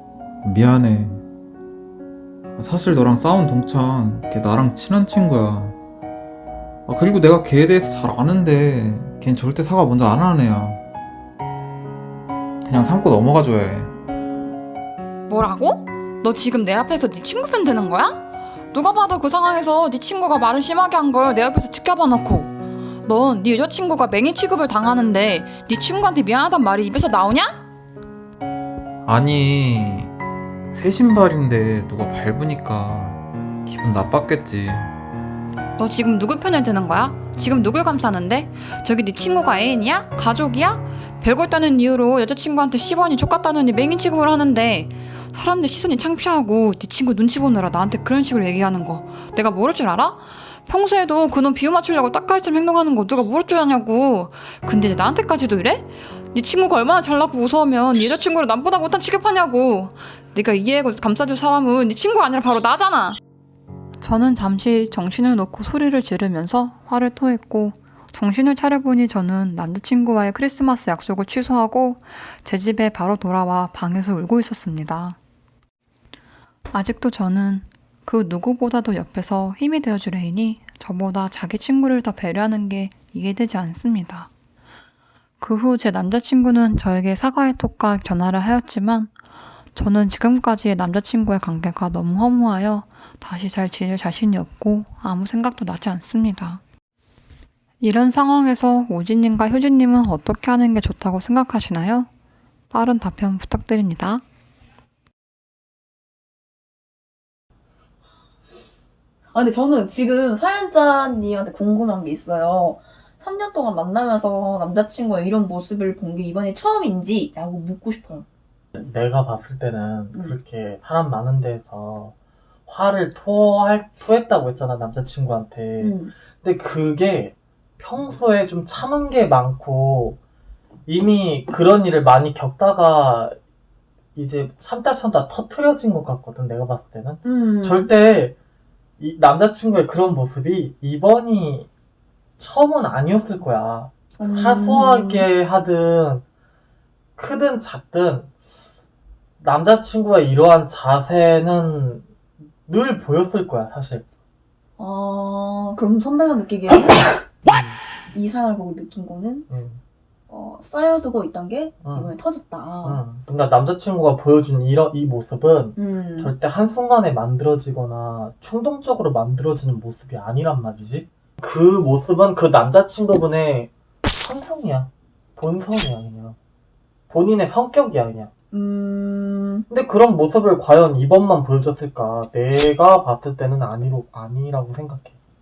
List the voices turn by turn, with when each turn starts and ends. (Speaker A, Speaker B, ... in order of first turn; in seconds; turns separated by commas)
Speaker A: 0.4-1.2, Speaker A: 2.5-5.8, Speaker A: 6.9-10.8, Speaker A: 12.6-13.9, Speaker B: 15.3-27.6, Speaker A: 29.0-30.1, Speaker A: 30.7-34.9, Speaker B: 35.8-63.2, Speaker B: 64.0-75.2, Speaker B: 76.7-84.3, Speaker B: 85.4-89.1, Speaker B: 89.7-96.6, Speaker B: 97.8-102.1, Speaker B: 102.7-104.2, Speaker C: 109.3-118.2, Speaker D: 118.7-122.1, Speaker D: 122.7-130.2, Speaker C: 125.8-126.1, Speaker D: 130.9-133.3, Speaker D: 134.1-138.3, Speaker C: 137.2-137.9, Speaker D: 139.0-141.7, Speaker D: 142.4-146.2, Speaker C: 144.2-145.3, Speaker D: 147.2-148.3, Speaker D: 149.4-152.1, Speaker D: 152.7-154.0, Speaker C: 154.8-157.3, Speaker D: 157.4-157.8, Speaker C: 158.1-159.5, Speaker D: 159.5-159.8, Speaker C: 160.3-163.0, Speaker D: 161.8-162.1, Speaker D: 162.8-176.4, Speaker C: 165.8-166.3, Speaker D: 177.1-178.3, Speaker C: 178.5-179.7, Speaker D: 179.7-185.2